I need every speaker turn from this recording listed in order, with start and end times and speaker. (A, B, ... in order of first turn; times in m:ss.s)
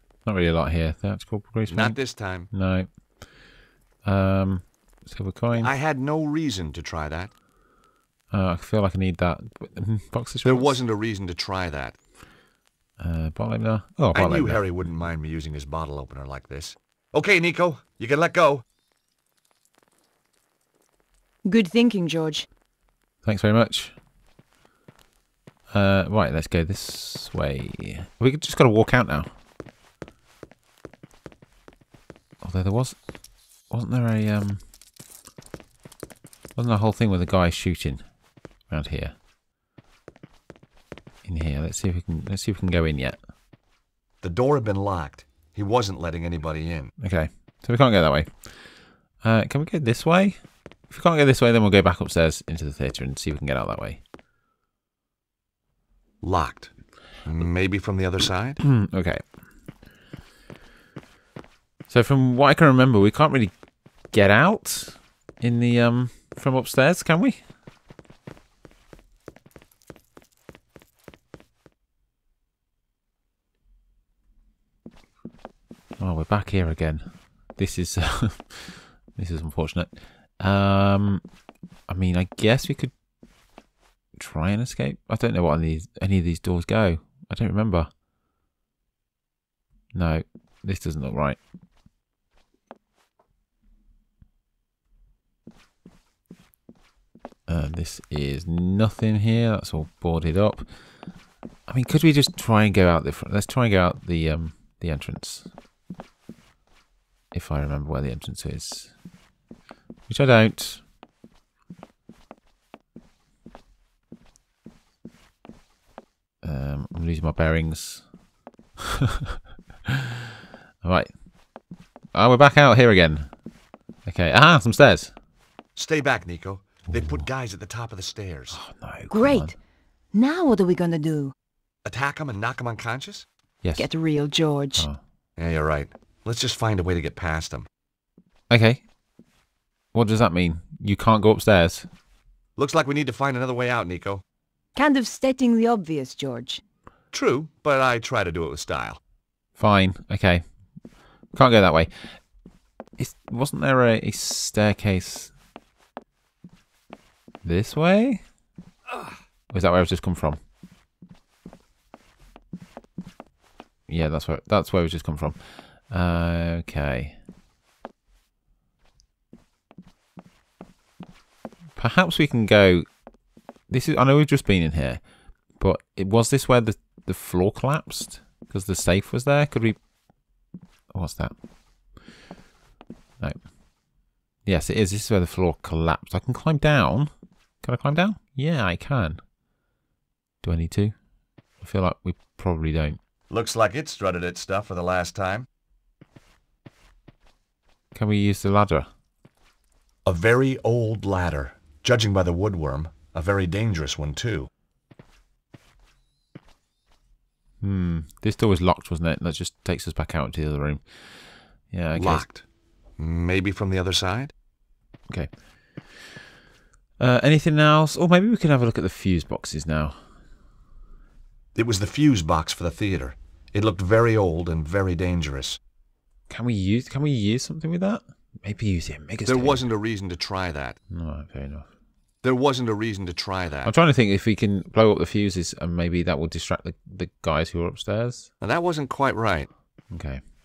0:00.2-0:02.9 A
0:01.7-0:02.5 B
0:04.0-0:05.7 A
0:05.6-0:07.3 B
0:08.3-0:10.8 A
0:10.4-0:12.0 B
0:13.0-0:14.6 A
0:14.1-0:18.6 B
0:21.4-0:22.4 C
0:23.2-0:23.9 A
0:25.7-0:29.3 A
0:32.4-0:33.0 A
0:33.7-0:34.6 A
0:36.6-0:38.0 A
0:38.7-0:39.2 A
0:41.2-0:43.2 A
0:44.2-0:46.9 B
0:47.0-0:48.5 A
0:49.2-0:50.4 A
0:50.9-0:54.0 A
0:56.2-0:56.7 B
0:57.2-0:58.6 B
0:58.6-0:59.2 A
1:01.9-1:03.5 A
1:04.1-1:07.4 A
1:16.0-1:21.2 A
1:21.9-1:22.9 A
1:24.2-1:27.9 A
1:29.9-1:31.4 A
1:37.5-1:40.7 A
1:41.7-1:45.5 A
1:47.3-1:48.9 A
1:50.1-1:50.8 A
1:56.4-1:58.0 A
1:58.9-1:59.2 A
2:00.8-2:01.1 A
2:02.2-2:03.3 A
2:04.1-2:05.1 A
2:05.8-2:08.6 B
2:08.5-2:09.5 A
2:09.1-2:09.6 C
2:10.1-2:11.3 C
2:11.8-2:13.2 B
2:13.6-2:13.9 A
2:13.8-2:14.8 C
2:15.4-2:17.7 B
2:18.5-2:18.8 A
2:19.9-2:21.9 A
2:22.6-2:24.2 B
2:24.8-2:26.6 C
2:27.1-2:29.0 B
2:29.6-2:30.4 A
2:31.3-2:32.2 A
2:33.0-2:35.3 A
2:37.4-2:38.2 A
2:39.5-2:40.4 A
2:43.9-2:45.4 A
2:45.9-2:47.2 A
2:51.8-2:52.8 A
2:53.7-2:55.0 A
2:55.6-2:59.8 A
3:00.9-3:01.3 A
3:04.4-3:07.1 A
3:07.6-3:09.2 A
3:10.4-3:10.9 A
3:11.6-3:13.0 A
3:13.3-3:15.5 B
3:17.9-3:18.9 A
3:20.0-3:24.5 B
3:27.6-3:30.8 A
3:31.7-3:32.3 A
3:31.9-3:32.4 B
3:33.0-3:34.3 B
3:37.0-3:40.0 A
3:41.6-3:45.6 B
3:46.3-3:49.7 A
3:49.2-3:50.8 B
3:50.9-3:51.7 A
3:52.2-3:53.7 B
3:53.6-3:58.3 A
3:58.4-3:59.5 B
3:59.9-4:00.2 A